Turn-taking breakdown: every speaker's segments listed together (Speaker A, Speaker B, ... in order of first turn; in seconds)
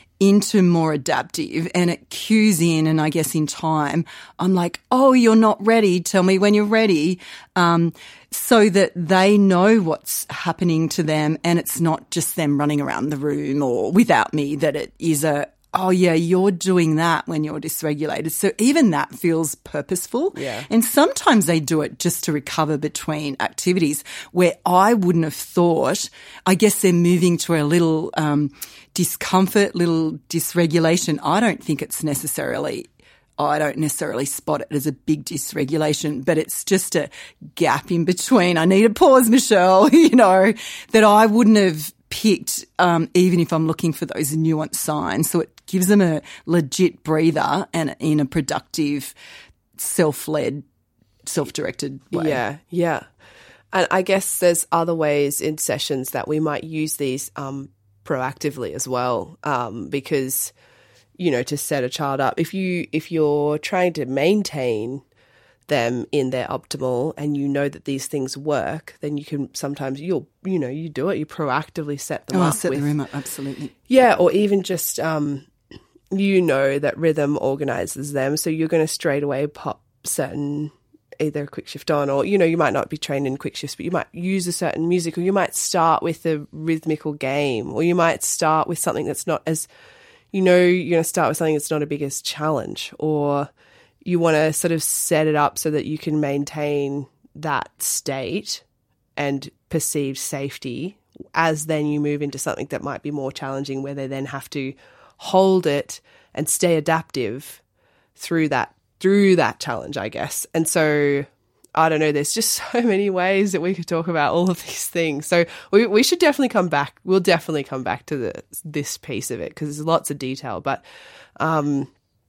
Speaker A: 0.2-49.1, 49.8-50.6, 51.2-52.4, 72.3-73.7
Speaker B: 20.4-20.6, 52.1-53.0, 53.7-60.5, 61.2-65.0, 65.7-72.9, 73.9-75.5, 76.1-89.7, 90.3-93.5, 94.0-98.6, 99.2-107.6, 108.2-120.8, 121.4-121.9